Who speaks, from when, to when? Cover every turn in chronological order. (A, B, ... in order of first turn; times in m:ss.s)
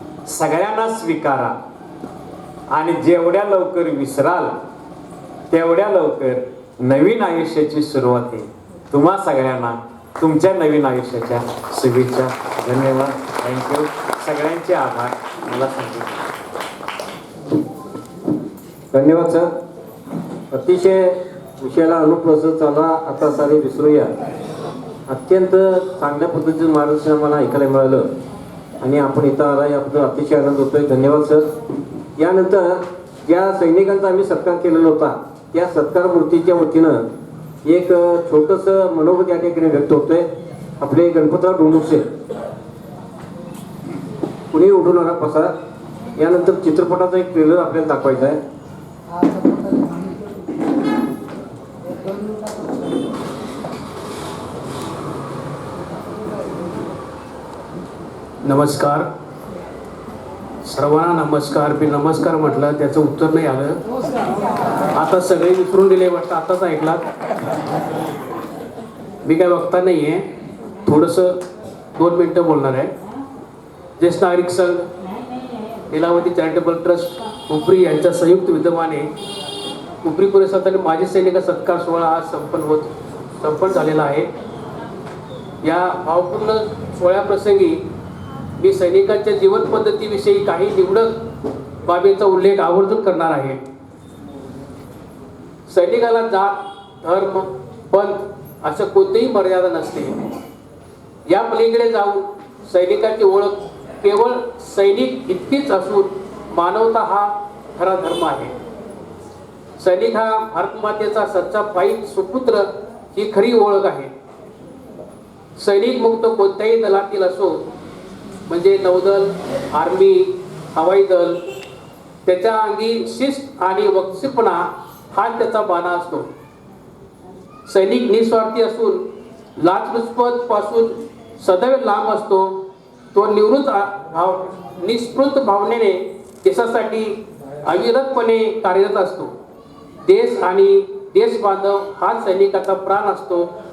0:00.2-0:01.6 A
0:02.7-0:04.5 A
0:05.5-0:16.2 A
0:18.9-0:19.4 B
0:19.0-0:19.4 A
0:20.5-0:21.1 B
0:21.6-0:24.1 B
0:22.7-0:23.2 A
0:25.1-0:28.0 A
0:25.2-0:28.0 B
0:28.8-0:30.6 A
0:28.9-0:31.4 B
0:31.1-0:31.4 A
0:32.2-0:32.7 A
0:33.3-0:36.0 A
0:33.3-0:37.0 B
0:37.7-0:40.2 B
0:39.7-0:40.1 A
0:40.8-0:42.0 B
0:44.5-0:45.5 B
0:46.2-0:48.4 B
0:58.4-0:59.1 C
1:00.6-1:03.8 C
1:05.0-1:07.0 C
1:09.2-1:10.3 C
1:10.8-1:11.4 C
1:11.9-1:12.9 C
1:14.0-1:14.9 C
1:15.9-1:19.1 C
1:20.0-1:24.3 C
1:25.6-1:27.8 C
1:28.6-1:31.2 C
1:31.8-1:33.6 C
1:35.7-1:40.2 C
1:41.3-1:48.5 C
1:49.8-1:54.1 C
1:55.6-1:57.6 C
1:58.5-2:01.4 C
2:02.2-2:06.3 C
2:07.7-2:09.0 C
2:09.6-2:19.3 C
2:20.0-2:23.5 C